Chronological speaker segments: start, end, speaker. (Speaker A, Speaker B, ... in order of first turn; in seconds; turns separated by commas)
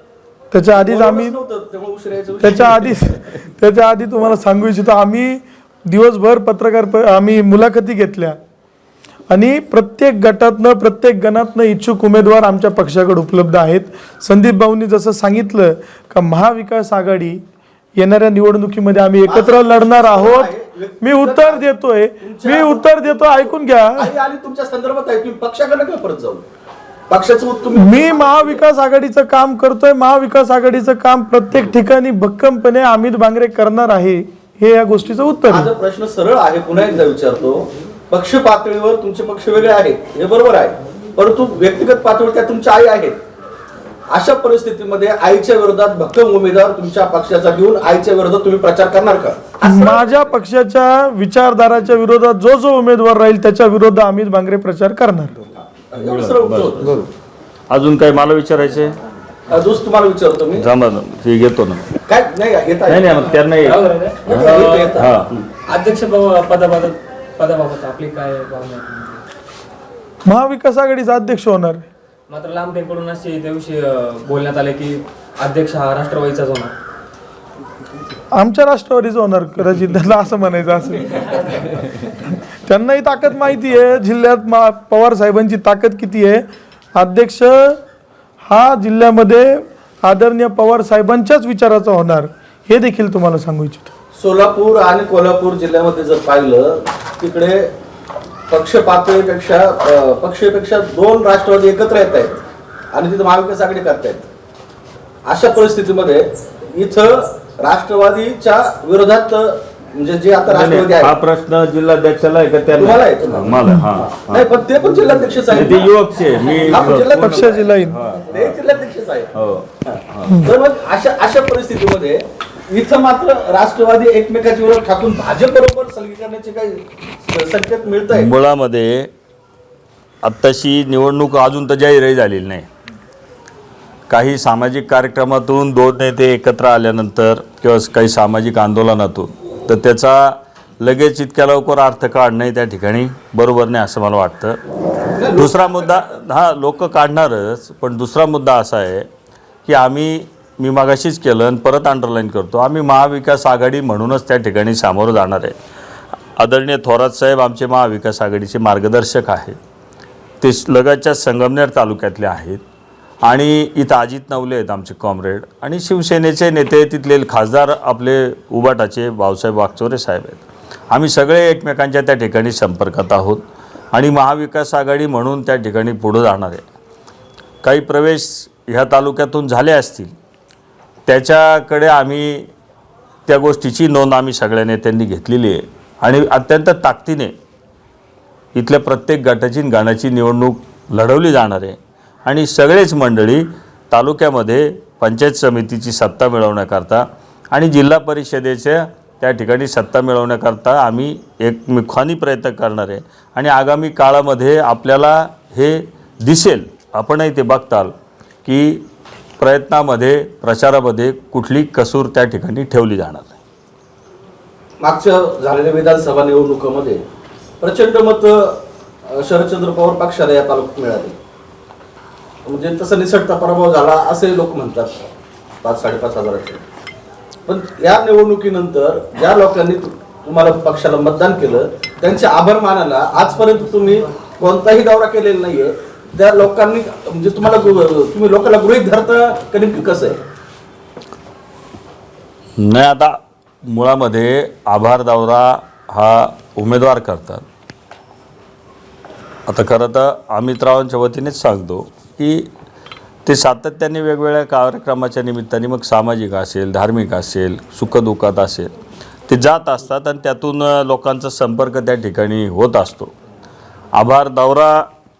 Speaker A: 0.5-1.4, Speaker B: 0.7-3.1, Speaker A: 2.4-8.4, Speaker A: 9.3-17.4, Speaker A: 18.0-20.5, Speaker B: 19.2-21.7, Speaker A: 21.0-24.1, Speaker B: 22.2-26.4, Speaker B: 27.1-28.6, Speaker A: 27.8-35.7, Speaker B: 35.5-43.2, Speaker B: 44.1-50.3, Speaker A: 49.6-55.4, Speaker B: 55.5-57.0, Speaker C: 56.0-57.1, Speaker C: 57.7-59.0, Speaker B: 59.5-60.6, Speaker C: 60.6-61.9, Speaker B: 62.0-63.3, Speaker C: 62.9-65.4, Speaker D: 63.6-65.0, Speaker B: 64.3-65.1, Speaker D: 65.6-69.2, Speaker A: 70.2-71.8, Speaker D: 72.3-76.7, Speaker A: 78.3-81.3, Speaker A: 82.7-87.8, Speaker A: 88.4-93.9, Speaker B: 94.1-97.7, Speaker B: 98.5-102.4, Speaker B: 102.9-104.2, Speaker B: 105.2-111.1, Speaker C: 110.5-114.4, Speaker B: 112.8-113.5, Speaker B: 114.0-115.9, Speaker C: 115.5-118.6, Speaker B: 116.5-117.6, Speaker A: 117.0-118.0, Speaker B: 118.2-119.3, Speaker C: 119.3-120.5, Speaker B: 119.8-128.3, Speaker C: 128.1-129.1, Speaker C: 130.2-132.7, Speaker C: 134.1-144.6, Speaker B: 145.2-145.9, Speaker C: 145.3-149.1, Speaker C: 149.7-155.6, Speaker C: 156.4-159.6, Speaker C: 160.4-162.6, Speaker C: 163.2-176.6, Speaker C: 177.6-180.1, Speaker C: 181.1-182.5, Speaker C: 183.3-187.3, Speaker C: 188.5-207.9, Speaker C: 208.4-208.8, Speaker C: 209.4-213.3, Speaker B: 214.8-217.0, Speaker B: 217.6-221.1, Speaker B: 222.4-225.1, Speaker B: 225.6-226.6, Speaker B: 227.5-240.2, Speaker C: 242.6-247.4, Speaker C: 249.5-252.5, Speaker C: 253.2-258.7, Speaker C: 259.3-263.1, Speaker C: 263.9-264.9